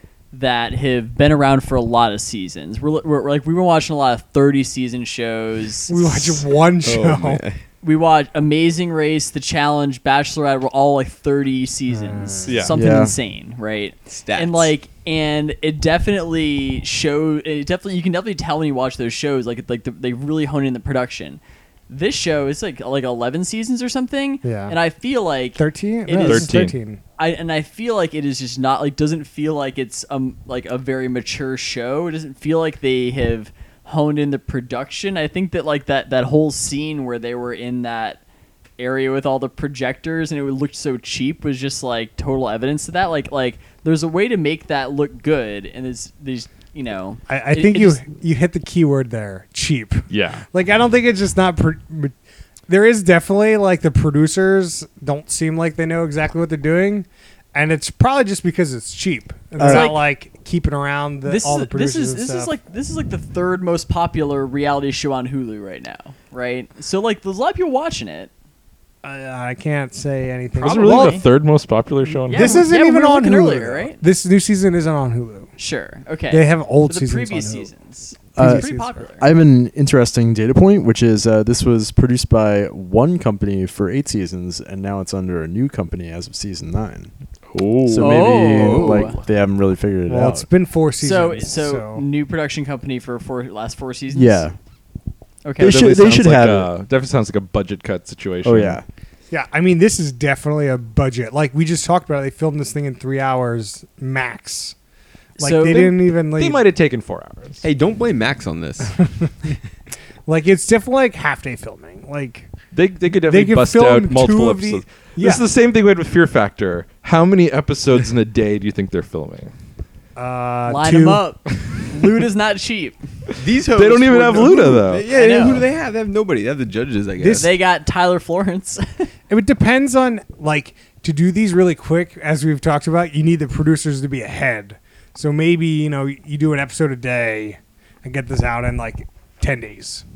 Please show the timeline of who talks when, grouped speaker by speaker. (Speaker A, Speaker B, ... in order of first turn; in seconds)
Speaker A: 0.3-6.4, 7.8-26.5, 27.2-38.2, 38.8-48.0, 59.6-60.0, 61.2-68.3, 70.6-71.3, 72.3-74.0, 75.6-79.2, 88.0-89.2, 91.0-94.5, 95.4-96.1, 105.4-106.0, 120.7-123.0, 125.1-125.7, 127.3-129.1
Speaker B: 5.9-7.4, 11.9-12.7, 24.4-24.8, 25.6-27.0, 47.3-52.1, 52.7-62.5, 69.0-71.2, 72.2-75.5, 76.3-77.7, 78.3-79.0, 90.1-92.0, 99.3-104.8, 105.4-106.6, 109.0-109.5, 110.3-112.5, 113.3-115.4, 120.2-121.2, 127.2-127.5, 129.3-140.0
Speaker C: 6.8-7.6, 14.1-14.7, 88.5-89.0, 107.6-108.9, 123.4-127.5
Speaker D: 12.4-12.7, 26.2-26.8, 50.1-50.4, 70.6-72.7, 87.5-88.2, 95.6-98.8, 106.3-107.6, 112.7-119.5, 123.8-125.0
Speaker E: 12.7-13.1, 59.6-60.0, 78.4-87.1, 87.8-90.5, 94.1-94.5, 95.6-96.7, 98.4-98.8